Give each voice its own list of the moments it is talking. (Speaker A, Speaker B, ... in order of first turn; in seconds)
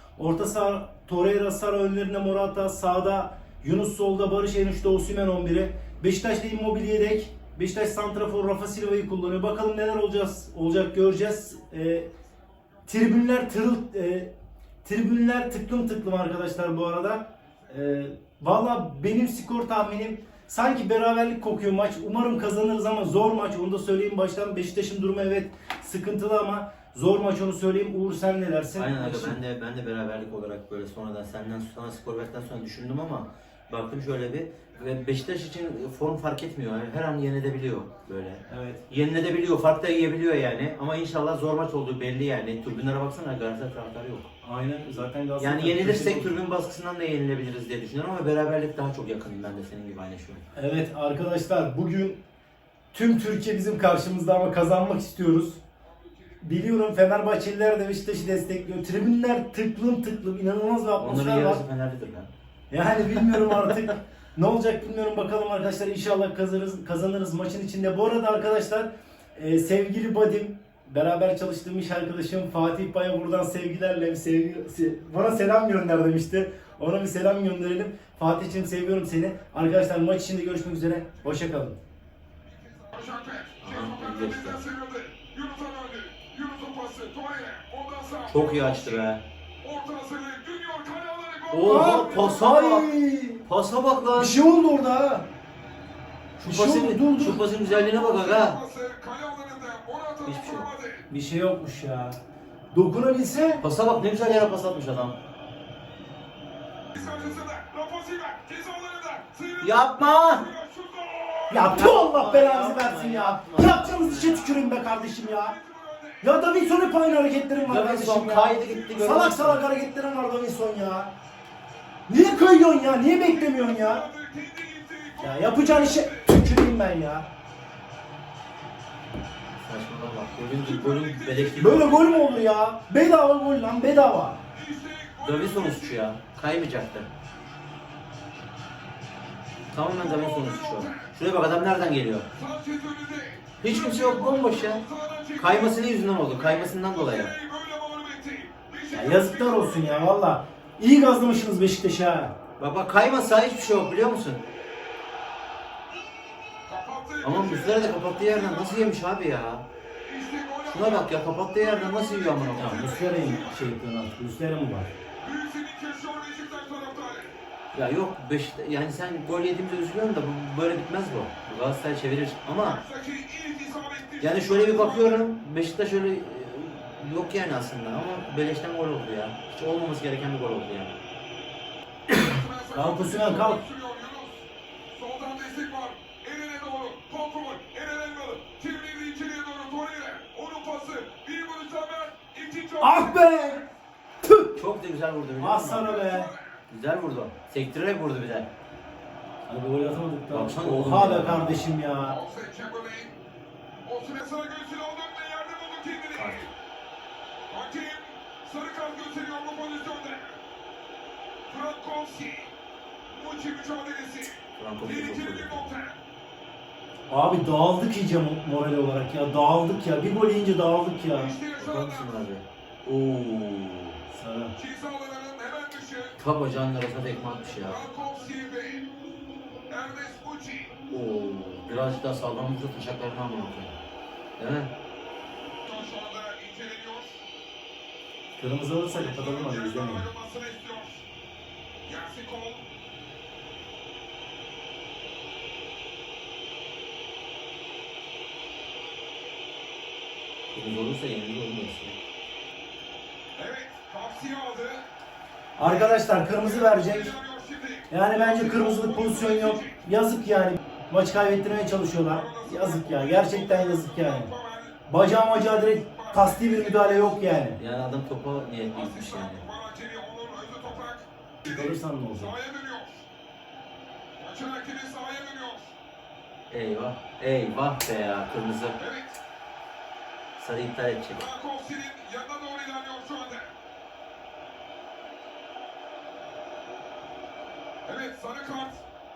Speaker A: 0.2-12.1, 12.9-14.3, 14.8-29.4, 38.5-38.9, 44.4-46.4, 50.5-52.2, 52.9-55.6, 56.4-61.6, 62.7-81.8, 91.6-93.5, 94.1-95.3, 96.4-97.4, 101.1-102.2, 102.7-103.6, 111.5-115.6, 116.2-121.1, 122.1-124.1, 125.2-127.3, 131.6-134.4, 148.9-152.3, 162.6-164.9, 182.8-183.6, 192.8-193.7, 194.3-194.6, 195.4-196.3, 199.5-202.2, 217.1-221.3, 224.1-224.5, 238.4-240.1, 255.6-257.1, 257.9-264.3, 264.9-267.6, 271.4-272.3
Speaker B: 28.8-44.3, 45.4-50.5, 61.0-62.3, 83.6-84.6, 88.3-89.2, 91.5-94.3, 96.4-98.6, 100.3-100.7, 103.6-105.2, 107.0-107.3, 109.6-110.5, 111.6-114.8, 117.6-119.6, 129.6-132.1, 135.2-137.1, 139.7-142.3, 143.6-144.8, 145.4-147.3, 152.6-154.4, 157.2-159.7, 160.7-163.0, 167.7-172.8, 174.2-181.0, 194.6-196.0, 196.7-198.5, 200.3-201.7, 206.2-206.5, 214.6-215.7, 221.6-224.0, 226.2-227.8, 230.9-233.8, 234.4-234.7, 250.5-252.0, 267.6-269.5, 276.5-278.8, 280.4-281.2
Speaker C: 34.7-35.8, 38.0-38.4, 56.1-56.4, 82.5-89.1, 89.6-92.5, 97.5-101.1, 106.9-111.7, 115.3-116.3, 118.6-119.1, 123.0-126.4, 130.6-132.4, 134.5-136.1, 140.0-141.1, 142.3-150.2, 156.7-159.0, 160.1-163.8, 165.2-167.3, 172.6-175.3, 182.1-193.2, 195.7-196.6, 202.0-203.2, 203.8-206.5, 207.5-210.4, 211.5-212.5, 213.1-216.0, 221.1-222.2, 224.6-226.2, 227.6-228.9, 229.7-230.8, 235.6-237.2, 238.8-241.0, 241.8-242.7, 253.3-254.9, 255.6-259.8, 262.1-267.4, 268.7-273.1, 274.2-275.8, 278.8-279.2, 281.1-283.5, 287.9-288.8